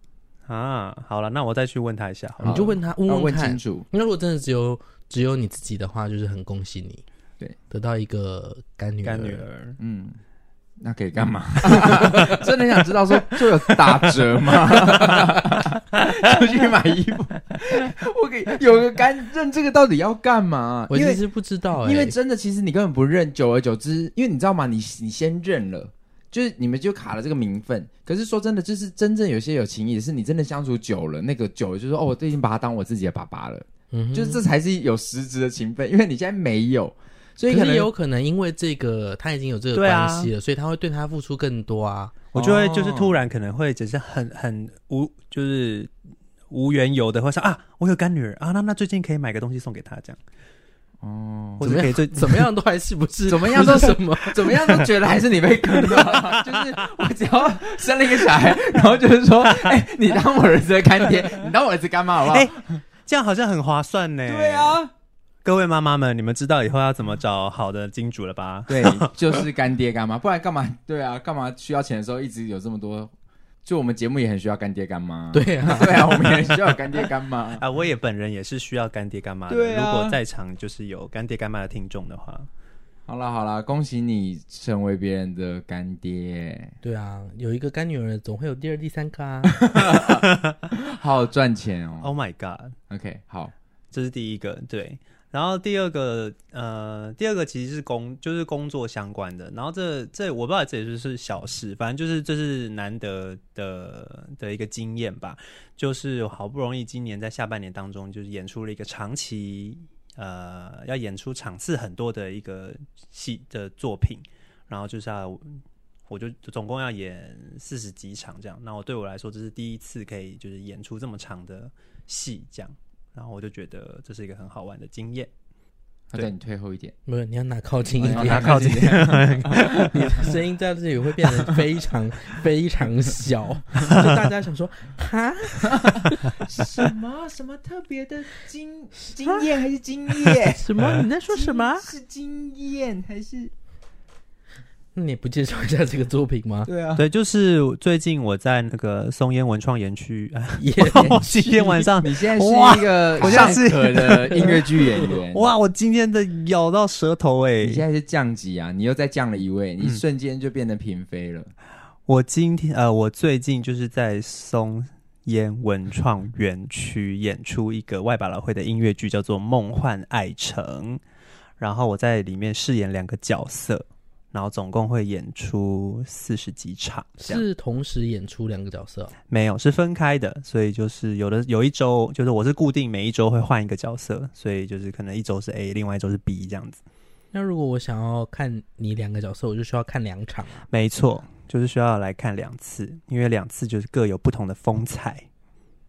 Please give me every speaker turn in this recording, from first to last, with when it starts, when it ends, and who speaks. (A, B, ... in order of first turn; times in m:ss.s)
0:00.5-0:02.7 A
0:02.4-0:03.8 B
0:02.4-0:07.0 C
0:07.7-0:09.4 C
0:09.0-0:09.8 A
0:09.8-0:10.2 B
0:10.8-0:21.2 B
0:20.9-0:22.1 C
0:21.8-0:37.9 B
0:33.9-0:34.4 C
0:37.5-0:42.1 C
0:39.7-0:40.3 A
0:42.3-0:45.9 A
0:42.3-0:43.2 B
0:46.5-0:50.2 A
0:51.0-0:51.7 B
0:51.6-0:52.5 A
0:51.6-0:54.7 C
0:53.3-1:02.8 B
0:56.0-0:56.6 A
1:02.3-1:04.8 A
1:04.2-1:04.9 B
1:05.4-1:09.1 A
1:08.7-1:13.1 B
1:13.6-1:17.6 B
1:15.3-1:16.4 C
1:17.6-1:22.5 A
1:19.5-1:20.2 B
1:23.1-1:26.7 B
1:26.8-1:29.7 C
1:29.6-1:32.1 B
1:30.2-1:30.6 A
1:32.0-1:32.7 A
1:32.9-1:33.5 B
1:33.9-2:05.3 A
2:06.1-2:06.9 B
2:07.0-2:16.3 C
2:08.0-2:09.9 B
2:08.0-2:10.1 A
2:15.7-2:20.7 B
2:20.4-2:21.9 C
2:21.3-2:23.5 B
2:24.9-2:26.7 C
2:26.6-2:27.0 B
2:27.0-2:37.8 A
2:30.6-2:31.7 C
2:30.9-2:35.5 B
2:33.2-2:33.6 C
2:37.6-2:41.5 B
2:42.1-2:51.0 A
2:51.6-2:57.4 A
2:57.2-2:59.1 C
2:59.3-3:06.8 A
3:07.3-3:10.7 C
3:10.7-3:15.2 A